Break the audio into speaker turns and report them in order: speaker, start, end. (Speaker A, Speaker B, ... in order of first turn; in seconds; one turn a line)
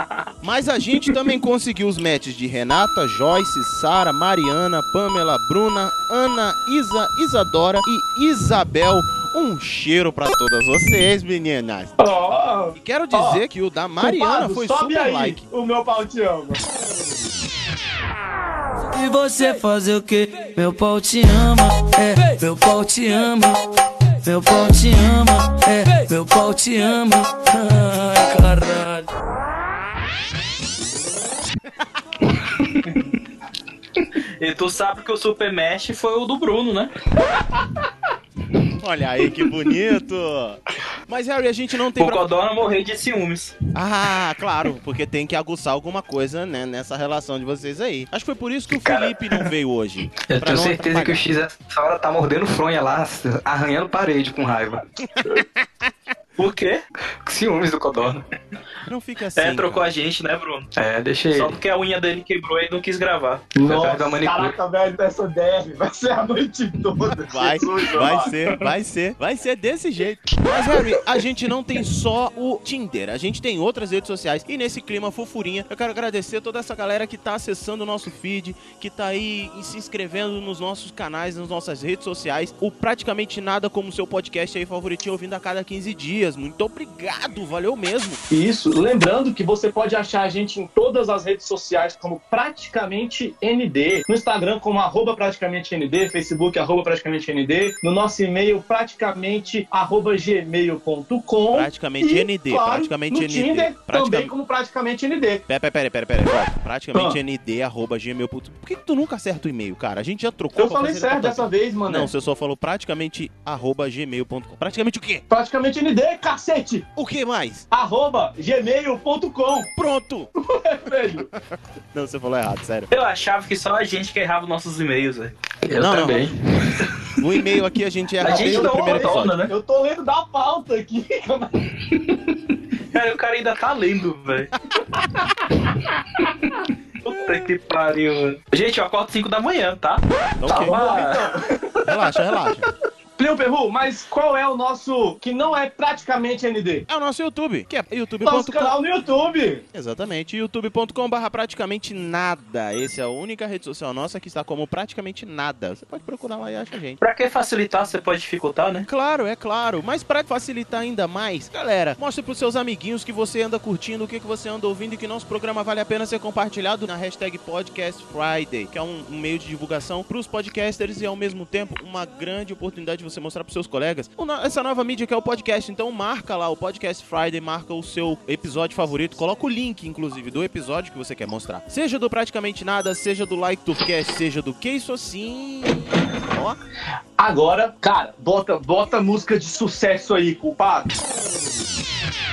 Speaker A: 0.4-12.0
Speaker B: 12.0-13.4
Speaker A: 12.7-15.5
Speaker B: 14.0-16.6
Speaker C: 18.9-23.6
Speaker C: 24.2-29.1
Speaker D: 34.2-36.9
Speaker A: 38.8-42.2
Speaker D: 42.0-43.5
Speaker A: 43.7-51.2
Speaker E: 48.8-49.1
Speaker E: 50.2-54.8
Speaker D: 56.4-56.8
Speaker E: 57.2-58.2
Speaker A: 58.9-59.9
Speaker D: 59.4-60.7
Speaker E: 60.8-61.5
Speaker D: 61.3-63.5
Speaker B: 63.5-68.3
Speaker E: 63.6-64.5
Speaker A: 67.2-88.2
Speaker B: 88.3-105.4
Speaker A: 101.5-104.3
Speaker A: 105.5-115.2
Speaker B: 110.5-112.1
Speaker B: 115.3-116.8
Speaker A: 117.0-117.7
Speaker B: 117.7-119.7
Speaker A: 119.8-120.3
Speaker B: 120.4-121.3
Speaker A: 121.1-121.4
Speaker A: 121.9-122.9
Speaker D: 122.9-125.3
Speaker E: 125.6-126.8
Speaker A: 125.7-126.3
Speaker A: 127.2-129.3
Speaker D: 128.2-129.5
Speaker B: 128.3-131.5
Speaker D: 132.9-134.5
Speaker D: 137.0-141.3
Speaker A: 140.4-141.1
Speaker B: 140.5-141.4
Speaker A: 141.8-142.7
Speaker B: 143.2-146.8
Speaker A: 146.9-148.7
Speaker B: 148.2-149.6
Speaker A: 149.7-157.0
Speaker D: 157.0-158.8
Speaker A: 158.9-186.6
Speaker B: 187.2-190.9